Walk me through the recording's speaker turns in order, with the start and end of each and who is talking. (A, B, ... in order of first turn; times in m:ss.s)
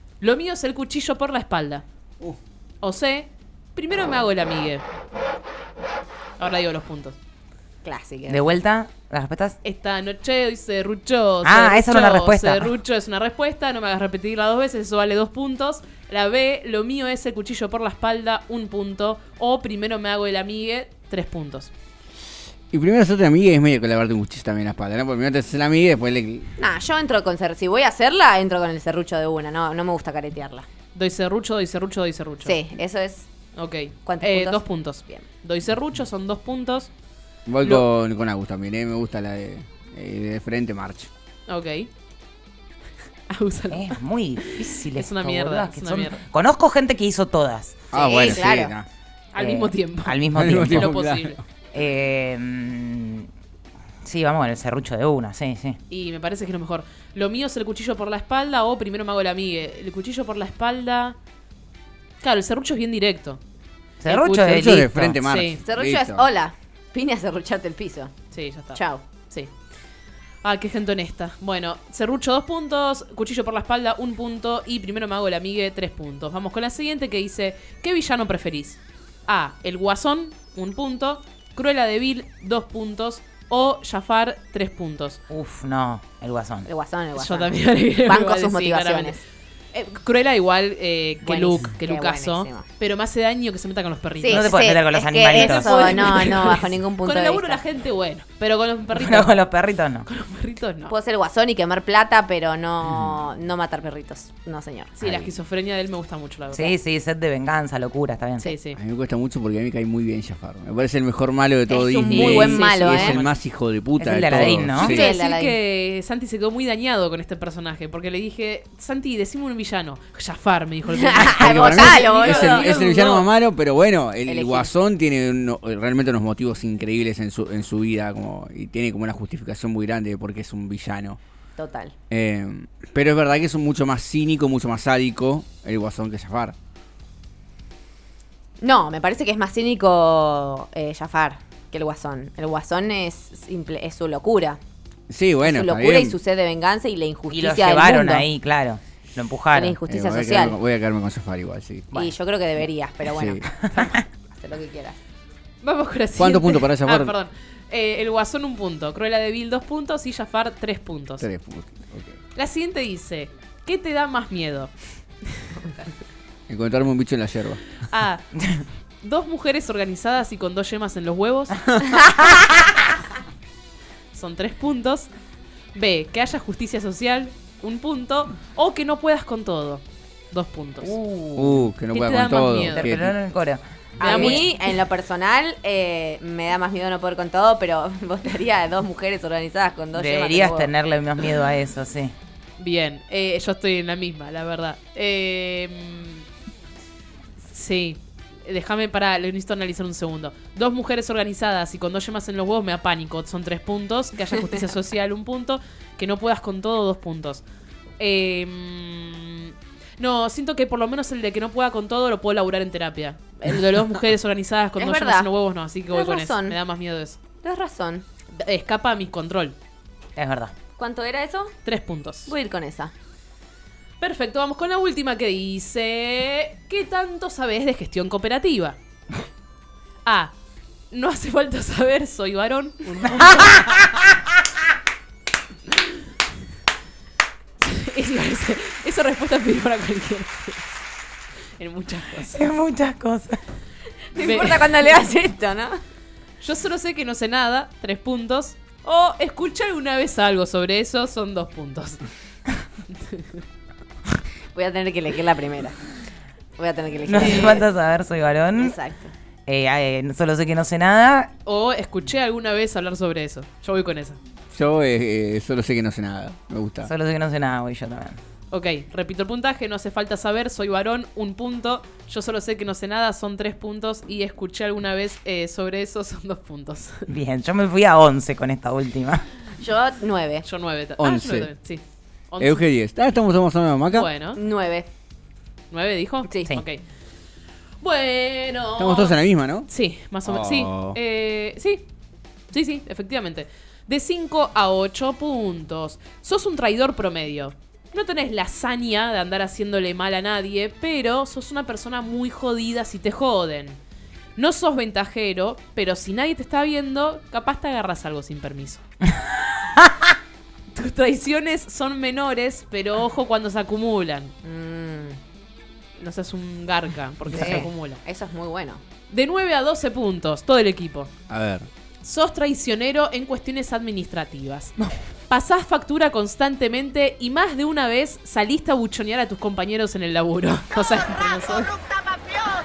0:00.2-0:01.8 A
0:02.8-0:04.8 A
0:06.4-0:07.2 A
0:07.8-0:08.5 B
0:08.3-0:09.6 C
0:09.6-0:21.7 A
0:11.4-0:12.7 C
0:22.7-0:26.5 D
0:26.6-0:30.7 B
0:30.9-0:32.6 A
0:32.4-0:33.3 B
0:33.6-0:36.9 A
0:34.1-0:35.3 B
0:37.5-0:41.1 D
0:41.5-0:41.9 A
0:43.3-0:46.2 A
0:43.7-0:47.9 C
0:47.9-0:48.9 D
0:47.9-0:48.7 B
0:49.3-0:51.4 A
0:49.4-0:50.9 C
0:50.4-0:51.4 D
0:51.7-0:53.3 C
0:54.0-0:55.8 C
0:55.9-1:01.2 A
1:02.2-1:03.4 A
1:04.0-1:05.2 C
1:04.0-1:04.6 A
1:04.5-1:06.2 D
1:05.2-1:05.6 A
1:05.6-1:08.1 B
1:08.3-1:09.5 A
1:08.7-1:09.1 B
1:10.4-1:25.2 A
1:25.3-1:26.7 C
1:26.7-1:29.2 B
1:27.1-1:29.2 A
1:29.7-1:34.6 A
1:31.2-1:32.7 B
1:34.2-1:37.6 B
1:34.3-1:35.9 C
1:35.4-1:41.0 A
1:39.0-1:40.0 C
1:40.9-1:44.9 B
1:44.9-1:46.8 A
1:45.0-1:45.3 D
1:46.5-1:48.4 C
1:48.4-1:48.8 A
1:48.8-1:55.1 D
1:51.7-1:53.2 B
1:52.1-1:52.4 C
1:52.1-1:53.4 A
1:54.0-1:55.0 C
1:54.8-2:03.3 A
1:54.8-1:55.6 B
2:00.9-2:02.7 B
2:01.4-2:11.2 D
2:04.3-2:04.7 B
2:11.6-2:12.0 B
2:12.1-2:16.6 D
2:18.6-2:24.6 B
2:25.1-2:26.2 D
2:25.4-2:28.3 B
2:27.3-2:29.8 C
2:29.5-2:30.6 B
2:29.9-2:32.0 D
2:31.9-2:33.7 B
2:33.0-2:33.4 D
2:33.7-2:34.0 A
2:34.2-2:35.0 B
2:35.6-2:41.3 A
2:36.2-2:37.2 D
2:41.2-2:42.2 D
2:42.4-2:44.7 A
2:45.2-2:45.8 A
2:46.5-2:47.6 D
2:47.9-2:48.3 A
2:49.0-2:51.6 A
2:54.1-2:55.1 A
2:55.7-3:01.0 A
3:00.8-3:01.7 C
3:01.4-3:03.2 D
3:01.9-3:02.9 A
3:02.7-3:04.4 C
3:04.0-3:04.4 A
3:04.0-3:10.7 B
3:09.9-3:12.1 C
3:12.6-3:16.2 A
3:17.5-3:27.4 A
3:28.0-3:37.2 A
3:34.8-3:35.3 B
3:35.9-3:36.6 B
3:37.4-3:38.0 B
3:38.3-3:39.6 A
3:40.2-3:40.5 C
3:40.8-3:41.6 B
3:41.6-3:42.3 A
3:42.3-3:42.9 B
3:44.0-3:48.8 A
3:50.0-3:50.3 A
3:50.9-3:53.7 A
3:53.2-3:53.8 C
3:57.6-4:00.8 A
4:01.6-4:02.4 A
4:02.2-4:03.4 C
4:04.1-4:05.8 B
4:04.2-4:05.0 A
4:06.4-4:12.0 A
4:12.9-4:13.4 A
4:14.5-4:15.8 B
4:16.6-4:17.7 B
4:17.1-4:18.8 C
4:17.2-4:17.6 A
4:18.6-4:19.1 B
4:19.5-4:21.3 C
4:21.4-4:24.2 A
4:24.5-4:26.9 D
4:26.8-4:28.2 C
4:28.5-4:37.1 A
4:37.1-4:39.3 C
4:39.6-4:40.5 B
4:40.4-4:42.7 A
4:41.0-4:41.5 D
4:42.4-4:44.1 D
4:43.9-4:44.4 A
4:44.4-4:44.9 B
4:45.7-4:46.8 A
4:46.3-4:46.5 B
4:47.8-4:51.8 A
4:48.8-4:49.7 D
4:50.2-4:51.0 D
4:52.5-5:03.8 A
5:04.4-5:08.8 A
5:10.7-5:14.3 A
5:14.4-5:15.2 B
5:16.0-5:18.0 A
5:17.3-5:17.7 C
5:17.3-5:18.8 B
5:19.1-5:21.1 A
5:21.3-5:21.7 D
5:22.0-5:24.8 A
5:25.3-5:31.8 A